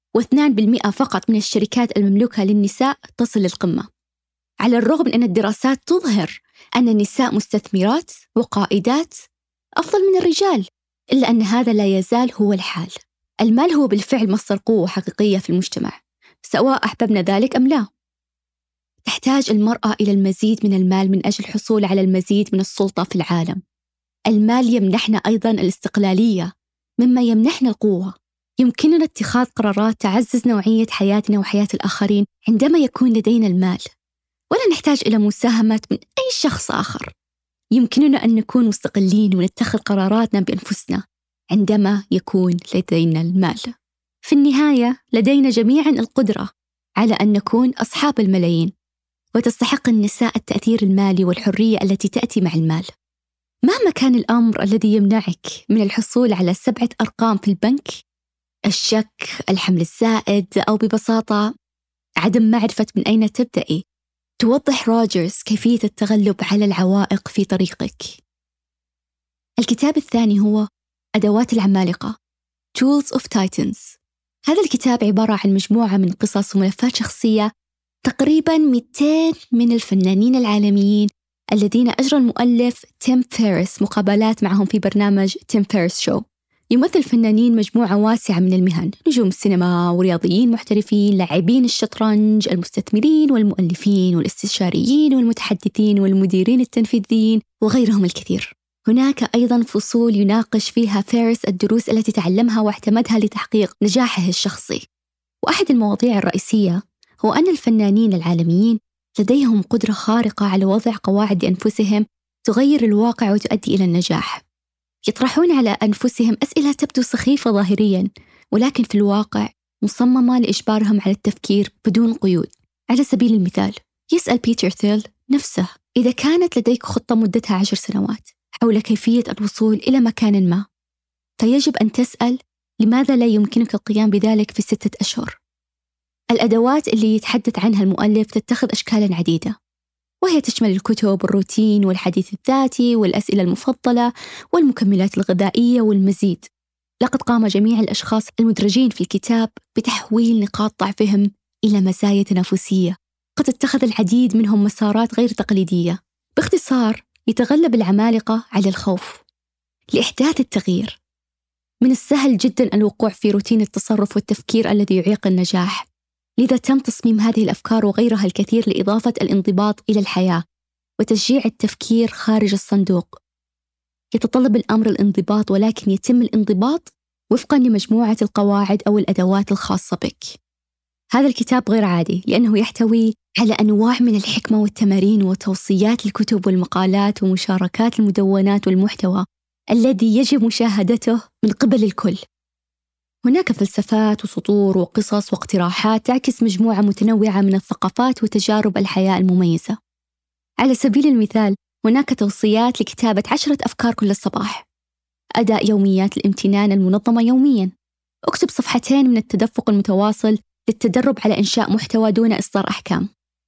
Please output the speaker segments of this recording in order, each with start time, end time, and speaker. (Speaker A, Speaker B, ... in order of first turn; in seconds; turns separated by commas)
Speaker A: 0.2-3.9, Speaker A: 4.6-9.2, Speaker A: 9.8-17.9, Speaker A: 19.1-23.6, Speaker A: 24.3-26.5, Speaker A: 27.0-33.8, Speaker A: 34.5-37.1, Speaker A: 37.8-43.7, Speaker A: 44.3-46.5, Speaker A: 47.0-48.7, Speaker A: 49.4-52.9, Speaker A: 53.7-58.0, Speaker A: 58.7-61.5, Speaker A: 62.2-63.8, Speaker A: 64.4-68.2, Speaker A: 69.6-70.7, Speaker A: 71.2-72.1, Speaker A: 72.8-77.5, Speaker A: 78.0-104.8, Speaker A: 105.5-114.4, Speaker A: 115.1-130.6, Speaker A: 131.4-135.4, Speaker A: 136.3-139.6, Speaker A: 140.2-146.5, Speaker A: 147.0-159.2, Speaker A: 159.9-161.0, Speaker A: 161.8-165.9, Speaker A: 166.4-170.4, Speaker A: 171.0-173.2, Speaker A: 174.1-180.3, Speaker A: 181.1-192.2, Speaker A: 193.3-199.8, Speaker A: 200.6-204.7, Speaker A: 205.4-207.7, Speaker A: 208.3-213.1